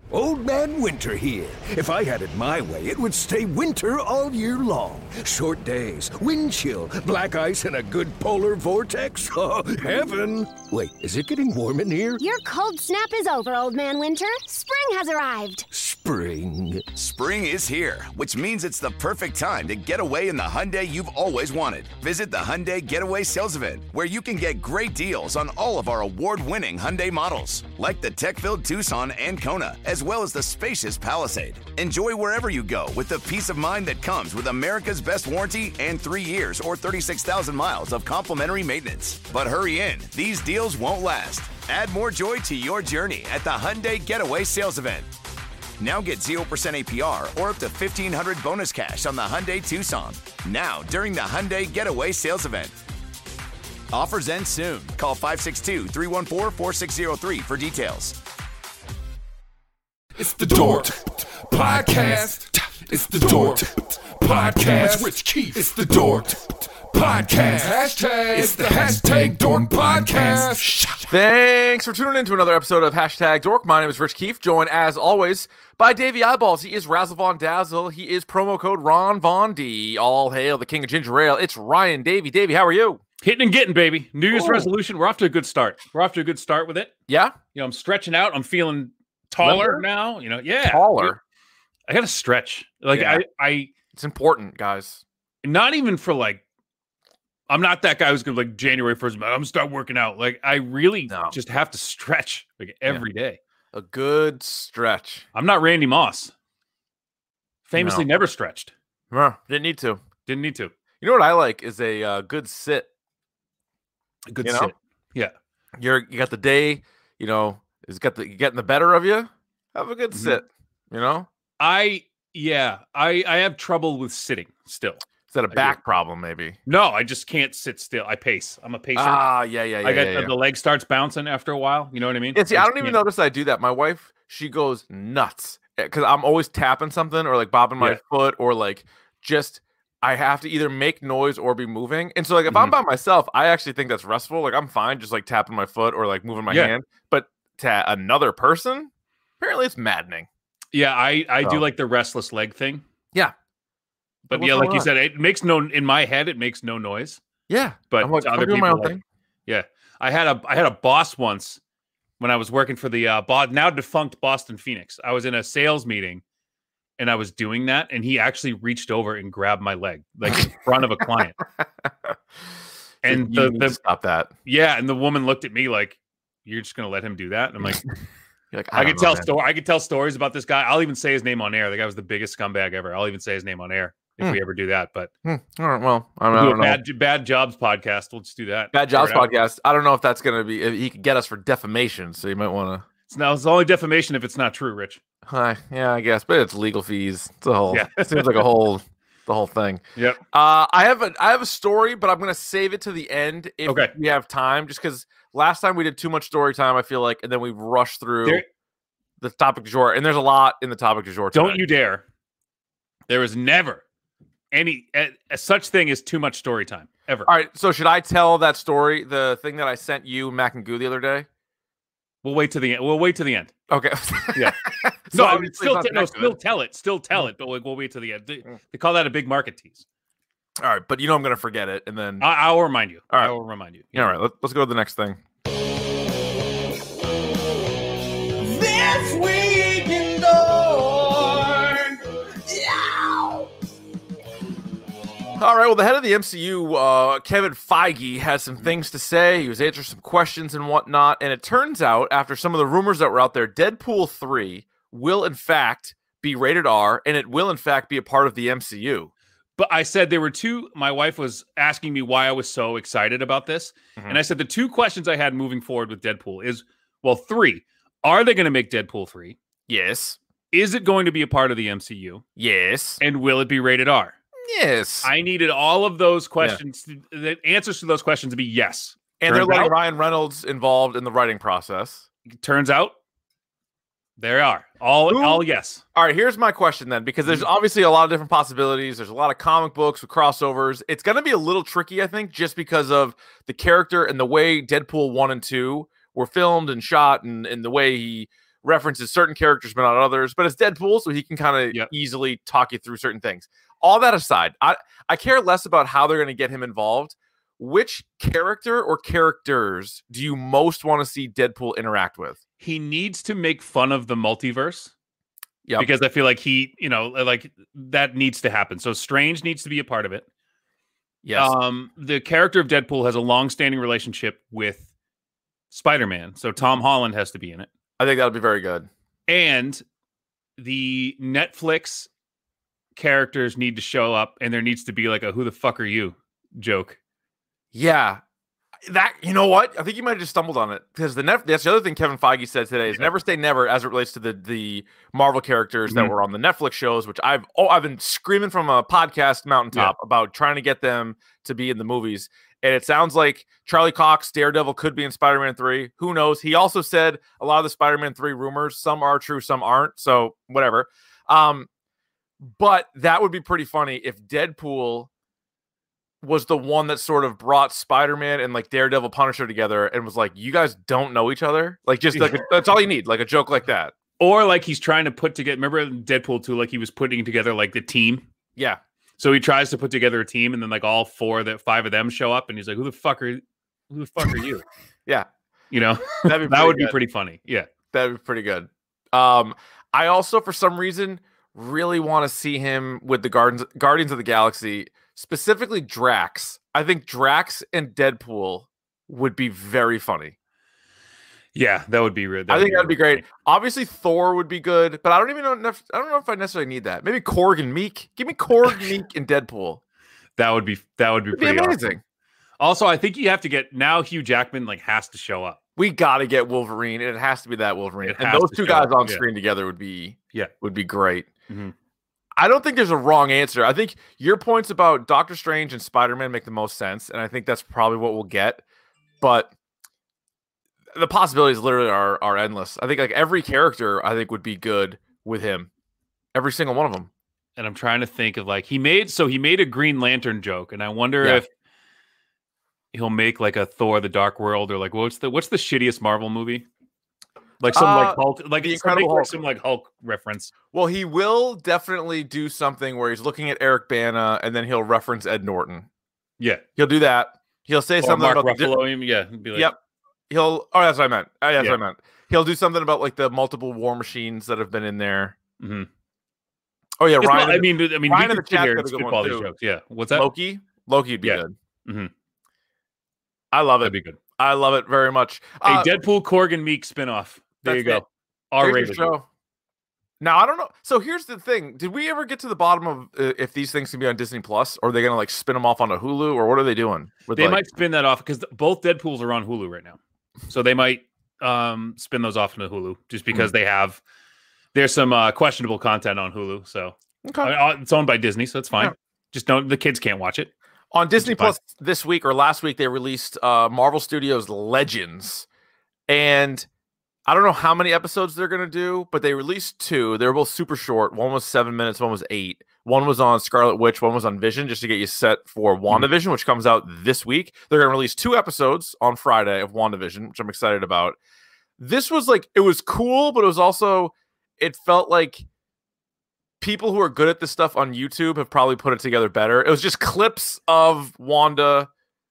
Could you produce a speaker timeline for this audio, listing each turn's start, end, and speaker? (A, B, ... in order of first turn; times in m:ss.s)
0:00.1-0:12.2 A
0:12.2-0:15.6 B
0:15.7-0:16.9 A
0:17.0-0:45.1 C
0:45.8-0:52.8 C
0:53.9-0:58.2 C
1:00.2-1:11.0 D
1:11.1-1:23.0 E
1:23.2-1:26.9 F
1:24.3-1:24.7 E
1:27.1-1:27.4 E
1:27.5-1:31.1 F
1:29.4-1:29.8 E
1:30.6-1:31.2 E
1:31.9-1:33.7 F
1:32.9-1:33.2 E
1:33.9-1:35.0 E
1:35.4-1:36.4 F
1:37.5-1:43.4 F
1:41.1-1:41.4 E
1:43.7-1:45.2 E
1:45.3-1:46.3 F
1:47.7-1:48.7 F
1:47.8-1:48.0 E
1:49.1-1:50.0 E
1:50.3-1:50.7 F
1:51.0-1:52.9 E
1:54.3-1:55.3 F
1:54.4-1:54.7 E
1:55.8-2:01.3 E
2:00.1-2:00.4 F
2:01.6-2:05.0 F
2:05.3-2:06.6 E
2:06.7-2:09.2 F
2:08.9-2:10.3 E
2:09.8-2:13.0 F
2:12.3-2:30.3 E
2:22.5-2:22.7 F
2:30.7-2:32.8 F
2:34.3-2:37.2 F
2:34.3-2:34.9 E
2:37.5-2:39.0 E
2:37.9-2:39.0 F
2:39.5-2:41.6 F
2:42.2-2:46.2 F
2:47.0-2:51.4 F
2:53.0-2:53.8 F
2:53.0-2:54.3 E
2:54.4-2:57.9 F
2:58.5-2:59.3 E
2:58.7-3:05.1 F
3:05.2-3:06.8 E
3:06.3-3:09.3 F
3:08.7-3:12.8 E
3:13.1-3:15.0 F
3:15.3-3:19.8 E
3:17.7-3:18.4 F
3:20.3-3:28.4 E
3:23.6-3:23.9 F
3:29.2-3:31.6 E
3:31.3-3:32.0 F
3:33.1-3:33.8 F
3:34.5-3:37.3 F
3:37.2-3:41.3 E
3:42.2-3:43.5 F
3:43.7-3:46.4 E
3:44.3-3:44.6 F
3:45.1-3:49.8 F
3:50.6-3:52.2 E
3:52.2-3:54.1 F
3:53.9-3:55.2 E
3:58.4-4:03.5 G
4:05.4-4:19.1 E
4:19.6-4:29.4 F
4:29.7-4:30.2 E
4:30.5-4:32.2 F
4:32.4-4:33.0 E
4:33.0-4:34.1 F
4:34.4-4:35.1 E
4:35.0-4:39.7 F
4:39.2-4:42.0 E
4:42.4-4:43.0 F
4:44.2-4:45.8 F
4:45.1-4:45.4 E
4:45.9-5:12.4 E
5:12.6-5:14.9 F
5:15.8-5:20.2 F
5:21.2-5:21.5 E
5:21.4-5:24.9 F
5:25.7-5:27.7 F
5:28.0-5:28.9 E
5:29.3-5:29.8 F
5:30.6-5:32.1 F
5:33.0-5:37.0 F
5:37.7-5:38.2 E
5:38.8-6:01.7 E
6:02.4-6:05.1 E
6:06.2-6:13.9 E
6:12.1-6:12.4 F
6:14.2-6:18.2 F
6:19.2-6:24.6 F
6:25.7-6:27.7 F
6:26.2-6:27.0 E
6:27.9-6:40.3 E
6:41.5-6:43.2 F
6:42.5-6:49.8 E
6:50.4-6:51.8 F
6:51.3-6:52.0 E
6:52.6-6:55.6 F
6:55.8-7:01.3 E
6:58.0-6:59.2 F
7:01.5-7:01.7 F
7:02.4-7:08.6 E
7:09.2-7:09.5 E
7:10.9-7:15.7 E
7:16.3-7:17.1 E
7:17.6-7:21.5 F
7:22.9-7:26.6 F
7:27.6-7:30.5 F
7:27.7-7:29.3 E
7:30.7-7:35.9 E
7:36.4-7:36.6 F
7:36.8-7:38.8 E
7:38.0-7:39.7 F
7:40.3-7:45.4 E
7:45.6-7:45.9 F
7:47.0-7:49.5 E
7:47.2-7:50.3 F
7:50.1-7:51.5 E
7:51.2-7:52.1 F
7:53.5-7:55.9 E
7:53.8-7:54.2 F
7:55.6-7:59.1 F
7:57.6-7:58.0 E
7:58.6-7:59.2 E
8:00.2-8:07.6 E
8:07.3-8:10.0 F
8:10.5-8:14.0 F
8:14.7-8:20.5 F
8:17.2-8:17.5 E
8:20.9-8:25.4 E
8:21.2-8:21.5 F
8:26.1-8:26.7 E
8:27.3-8:41.2 E
8:41.8-8:45.4 E
8:46.6-8:51.9 E